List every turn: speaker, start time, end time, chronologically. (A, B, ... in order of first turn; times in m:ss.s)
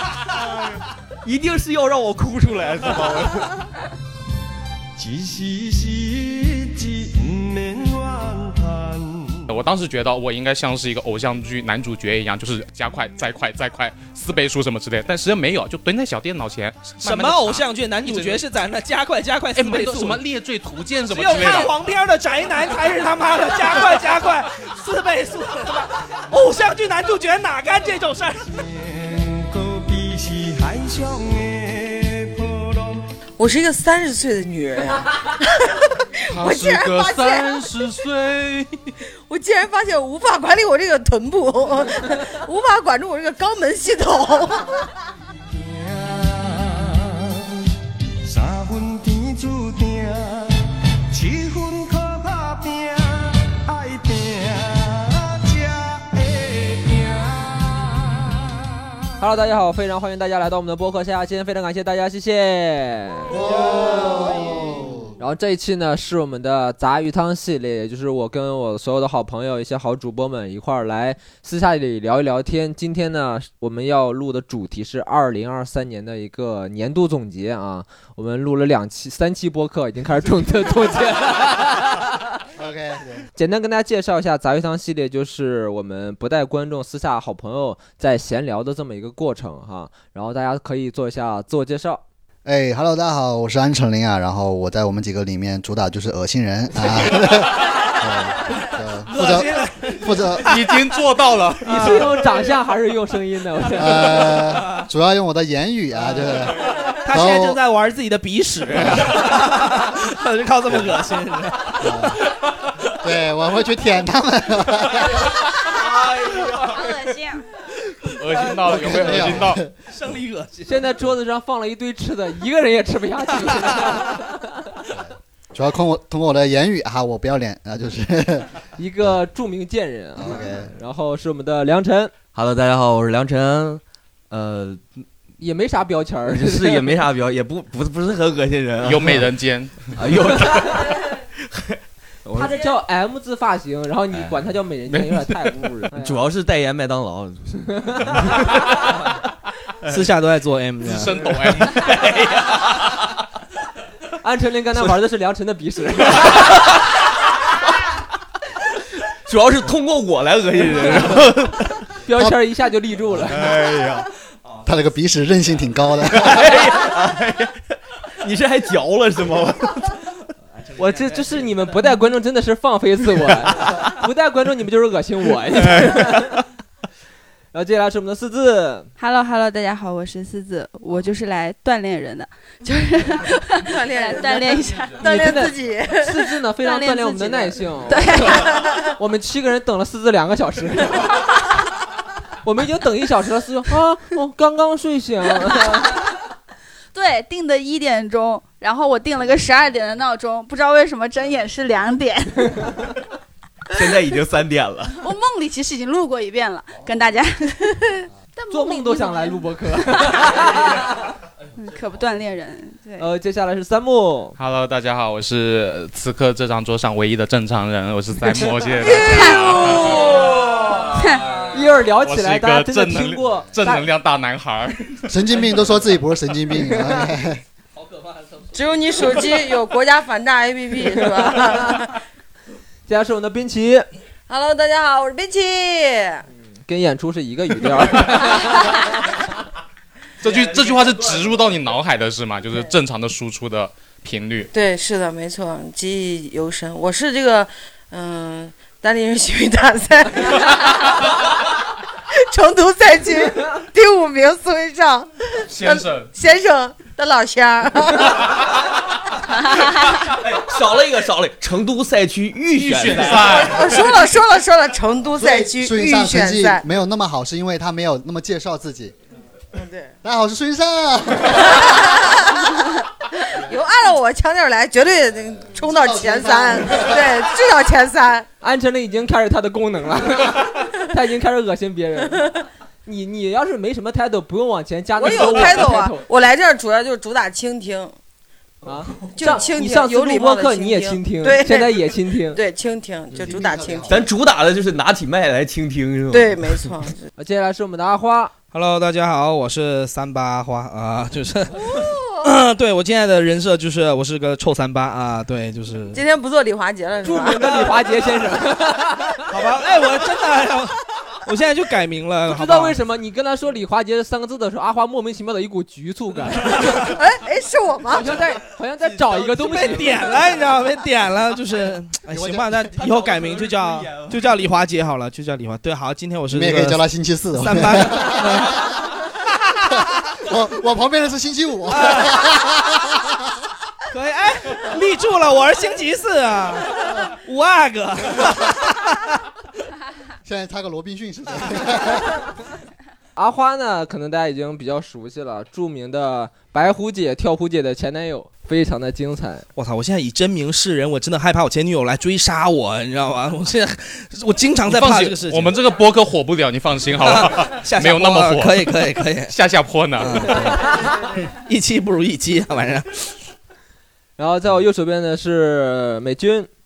0:01.2-0:03.6 A
0:05.0-0:06.1 B
0:07.8-0:08.2 B
0:09.5-0:18.4 C
0:17.0-0:20.2 D
0:19.5-0:21.8 C
0:21.1-0:28.6 D
0:29.1-0:32.6 B
0:33.4-0:37.8 E
0:36.3-0:38.7 C
0:39.3-0:44.9 E
0:48.3-0:50.0 B
0:51.2-0:52.8 B
0:53.8-0:54.2 B
0:55.6-0:56.2 B
0:59.2-1:04.6 F
1:03.3-1:05.1 G
1:05.2-1:22.1 F
1:22.6-1:23.3 G
1:23.4-1:32.0 F
1:32.4-1:40.7 G
1:37.0-1:37.4 D
1:39.1-1:41.0 D
1:40.4-1:42.0 C
1:41.6-1:44.4 F
1:41.7-1:42.1 D
1:43.8-1:47.6 G
1:44.2-1:44.9 D
1:46.7-1:52.7 D
1:48.8-1:49.1 G
1:51.8-1:52.2 G
1:53.0-1:55.3 G
1:55.8-1:56.6 D
1:56.2-1:57.4 H
1:58.1-1:59.6 C
1:58.6-1:59.7 G
1:58.9-2:00.9 D
2:00.7-2:04.5 F
2:04.9-2:08.5 G
2:08.8-2:12.1 F
2:10.2-2:10.7 G
2:12.4-2:14.9 A
2:15.4-2:17.0 F
2:16.3-2:19.3 A
2:18.8-2:20.0 C
2:20.0-2:22.7 A
2:20.6-2:20.8 F
2:22.4-2:26.2 F
2:24.1-2:25.2 A
2:25.9-2:28.7 A
2:27.8-2:28.2 F
2:29.9-2:31.7 D
2:30.8-2:32.0 C
2:31.2-2:33.1 A
2:34.2-2:36.7 F
2:34.7-2:35.0 A
2:39.3-2:41.9 A
2:42.0-2:43.5 F
2:43.3-2:44.1 A
2:44.6-2:46.5 G
2:46.2-2:50.0 A
2:50.7-2:51.5 A
2:50.8-2:56.4 F
2:57.5-2:58.9 F
2:59.0-3:05.3 H
3:03.6-3:06.2 E
3:05.0-3:11.2 F
3:06.6-3:08.6 H
3:12.4-3:16.0 F
3:16.9-3:22.9 H
3:23.8-3:25.0 A
3:25.0-3:27.8 H
3:28.4-3:30.8 H
3:28.5-3:30.9 F
3:31.6-3:33.1 H
3:33.0-3:34.4 F
3:34.4-3:45.1 C
3:38.8-3:39.9 H
3:40.8-3:41.4 H
3:41.5-3:43.9 F
3:45.1-3:47.4 G
3:48.5-3:52.0 E
3:51.3-3:51.7 F
3:52.9-3:53.9 F
3:54.3-3:56.3 E
3:56.7-3:58.8 F
4:00.2-4:04.5 C
4:00.4-4:01.3 A
4:04.5-4:11.1 E
4:12.3-4:18.5 E
4:15.5-4:16.1 C
4:20.0-4:23.4 A
4:22.5-4:23.9 C
4:23.2-4:26.6 E
4:25.2-4:28.9 G
4:29.5-4:30.0 E
4:30.0-4:31.8 G
4:31.5-4:32.5 E
4:33.1-4:38.3 E
4:35.5-4:37.2 G
4:38.4-4:42.3 F
4:42.9-4:46.0 F
4:45.0-4:47.9 E
4:48.6-4:52.4 F
4:49.2-4:54.0 E
4:53.1-4:54.1 G
4:53.9-4:56.6 A
4:56.1-4:57.0 E
4:57.2-4:58.3 F
4:58.5-5:06.0 D
5:01.7-5:02.0 E
5:05.9-5:07.7 E
5:07.0-5:09.2 F
5:07.3-5:07.8 D
5:09.3-5:12.8 D
5:12.3-5:16.9 F
5:16.7-5:18.2 E
5:17.9-5:20.0 F
5:18.8-5:20.3 A
5:19.5-5:26.8 D
5:22.1-5:22.5 G
5:22.7-5:24.3 A
5:26.3-5:28.7 G
5:27.4-5:28.7 D
5:30.2-5:33.0 G
5:31.7-5:32.4 D
5:33.9-5:39.1 D
5:40.2-5:42.2 G
5:43.2-5:49.5 F
5:49.6-5:55.6 D
5:54.6-5:58.7 C
5:57.0-5:59.3 D
5:59.3-6:00.8 C
6:00.0-6:03.2 D
6:04.2-6:06.5 F